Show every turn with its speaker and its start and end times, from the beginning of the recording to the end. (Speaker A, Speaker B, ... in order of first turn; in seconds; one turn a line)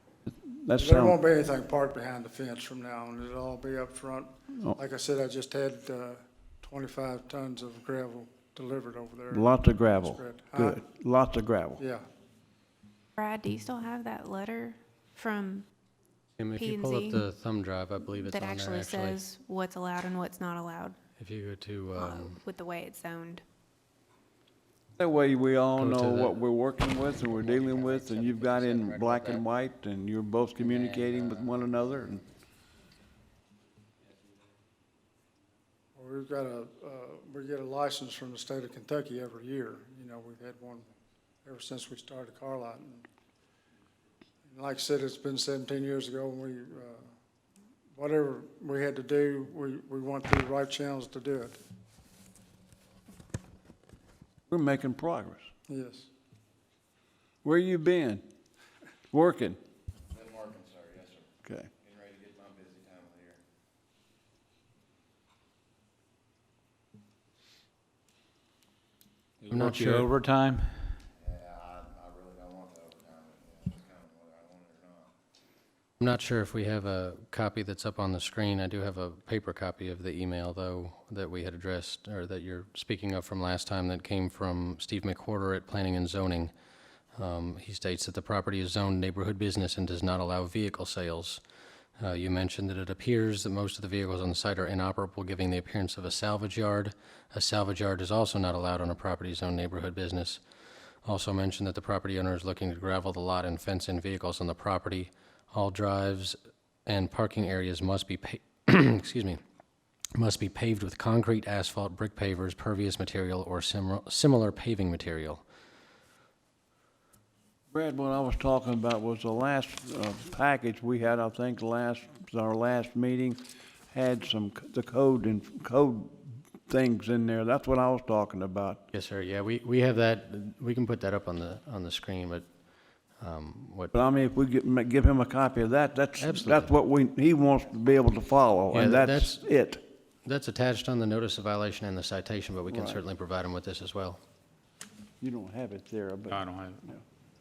Speaker A: 0.3-1.1
Speaker B: 0.8-10.8
Speaker A: 9.3-11.8
Speaker B: 11.8-12.1
Speaker C: 13.2-15.7
Speaker D: 16.4-19.3
Speaker C: 16.6-17.2
Speaker C: 18.1-21.0
Speaker D: 21.1-22.4
Speaker C: 22.0-23.4
Speaker A: 25.0-32.2
Speaker D: 25.8-26.4
Speaker D: 27.4-29.4
Speaker D: 30.6-31.6
Speaker B: 36.0-40.8
Speaker B: 41.5-43.0
Speaker B: 44.5-47.1
Speaker B: 48.0-51.6
Speaker A: 54.5-55.5
Speaker B: 55.7-56.1
Speaker A: 57.4-58.2
Speaker A: 59.1-59.6
Speaker E: 60.1-61.3
Speaker E: 61.8-63.4
Speaker F: 69.5-71.0
Speaker D: 69.5-70.1
Speaker E: 71.2-75.1
Speaker D: 76.0-86.5
Speaker D: 87.2-91.4
Speaker D: 92.0-100.4
Speaker D: 101.0-106.4
Speaker D: 106.9-109.4
Speaker D: 110.2-115.4
Speaker A: 117.7-123.4
Speaker A: 123.9-128.8
Speaker D: 128.9-133.9
Speaker A: 133.9-139.8
Speaker D: 136.2-136.7
Speaker D: 138.7-139.4
Speaker D: 140.2-144.2
Speaker A: 142.7-143.0
Speaker A: 145.2-147.0
Speaker F: 146.3-146.8